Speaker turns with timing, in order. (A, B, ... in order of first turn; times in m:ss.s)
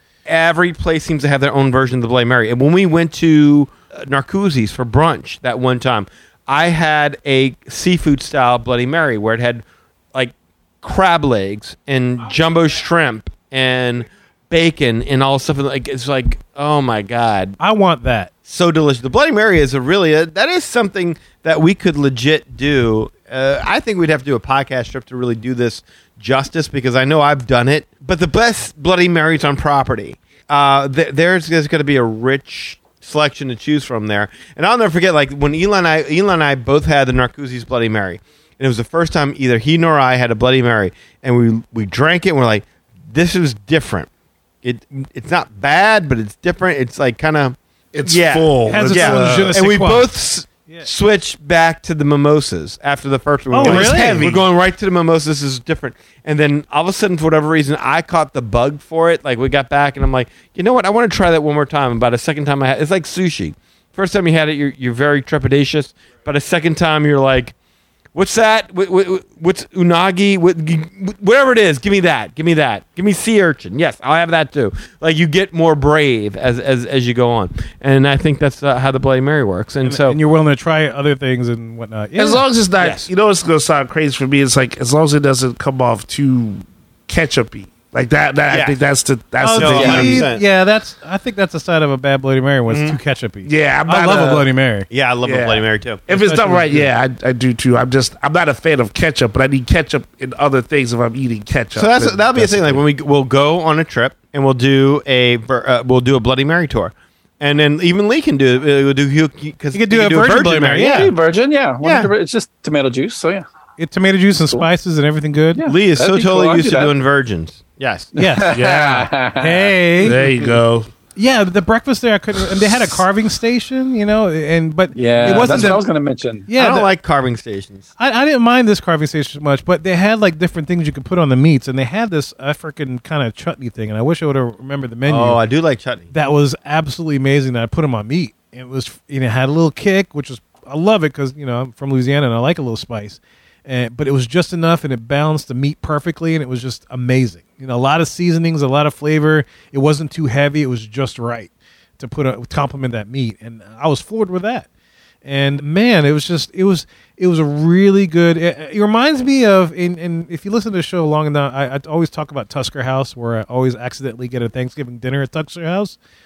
0:00.2-0:17.6 A
0:17.6-0:18.3 B
0:18.5-0:44.1 A
0:44.6-1:07.5 A
0:47.9-0:49.6 C
0:48.7-0:50.1 B
0:53.5-0:54.3 B
0:53.6-0:54.4 C
1:08.1-1:20.2 A
1:19.8-1:22.4 B
1:22.2-1:30.2 C
1:22.8-1:23.1 A
1:28.5-1:28.8 A
1:29.4-1:34.9 B
1:29.5-1:30.4 A
1:29.7-1:30.0 D
1:32.7-1:33.0 A
1:33.4-1:34.4 C
1:34.9-1:36.0 A
1:35.2-1:42.8 C
1:36.1-1:36.9 B
1:41.7-1:51.1 A
1:49.7-1:51.1 B
1:50.8-1:53.4 D
1:51.8-1:52.1 A
1:53.8-1:55.6 B
1:55.5-1:56.9 D
1:55.6-1:58.1 A
1:58.1-1:59.7 D
1:58.2-1:58.6 B
1:58.5-1:59.1 C
1:59.3-2:00.3 B
2:00.0-2:00.9 C
2:01.2-2:05.8 B
2:04.9-2:06.4 D
2:05.2-2:05.8 A
2:06.5-2:06.9 B
2:06.5-2:07.9 A
2:08.0-2:15.4 B
2:15.1-2:16.1 A
2:16.1-2:34.7 B
2:35.2-2:46.0 B